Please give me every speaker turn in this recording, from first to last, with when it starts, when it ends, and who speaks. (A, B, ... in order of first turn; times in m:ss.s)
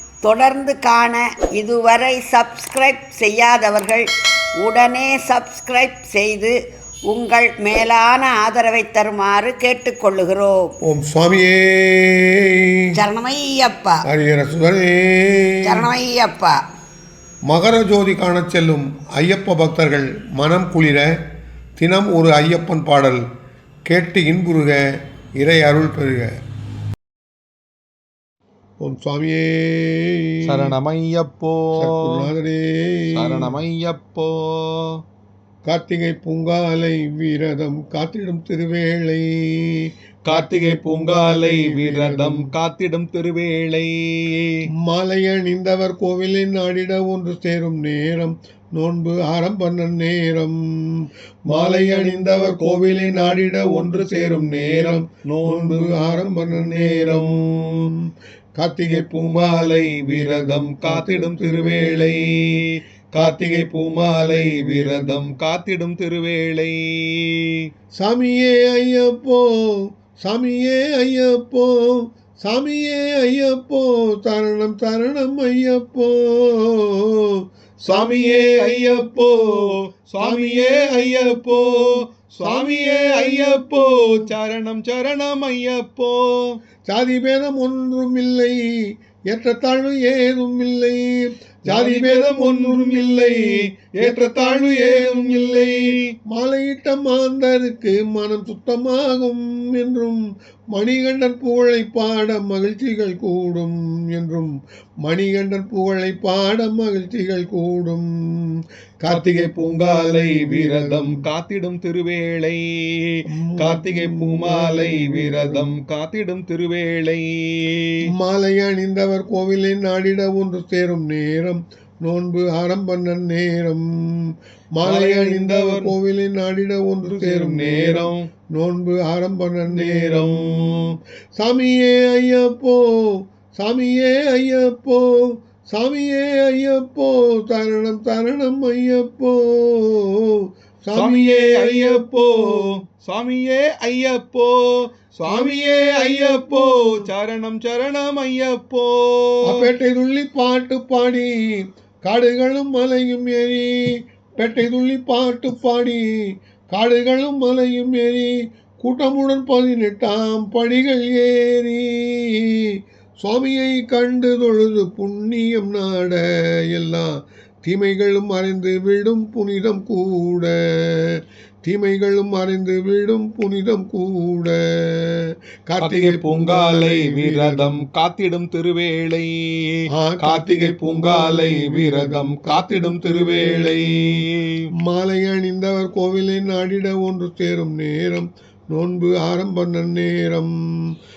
0:00.2-0:04.1 A
0:04.6-0:06.5 A
0:07.1-0:10.7 A
0:10.8-0:12.8 B
0:12.9-0:14.0 A
0:14.1-0:15.8 B
0:15.6-0:16.6 A
0:17.5-0:21.1 B
0:21.8-0:23.2 B
0:23.9-0:24.8 B
0:25.4-0:26.3 B
0:28.8-0:30.7 B
0:30.4-0:32.3 C
0:31.7-0:33.5 B
0:33.1-0:35.0 C
0:35.6-0:42.5 B
0:40.2-0:44.7 C
0:44.8-0:59.1 B
0:51.5-0:57.8 C
0:58.9-1:07.6 C
1:00.1-1:02.0 B
1:04.2-1:05.2 B
1:08.0-1:24.3 B
1:17.9-1:26.6 C
1:26.9-1:28.6 B
1:29.3-1:40.2 B
1:31.7-1:36.1 C
1:40.7-1:51.2 B
1:49.1-1:58.0 C
1:53.3-1:55.7 B
1:58.1-2:22.8 B
2:04.8-2:05.9 C
2:07.0-2:08.3 C
2:09.7-2:10.9 C
2:20.9-2:29.7 C
2:25.2-2:27.0 B
2:29.4-2:31.3 B
2:32.0-2:33.7 B
2:34.4-2:36.0 B
2:36.7-2:57.8 B
2:55.8-3:04.7 C
2:59.9-3:03.7 B
3:04.8-3:10.5 B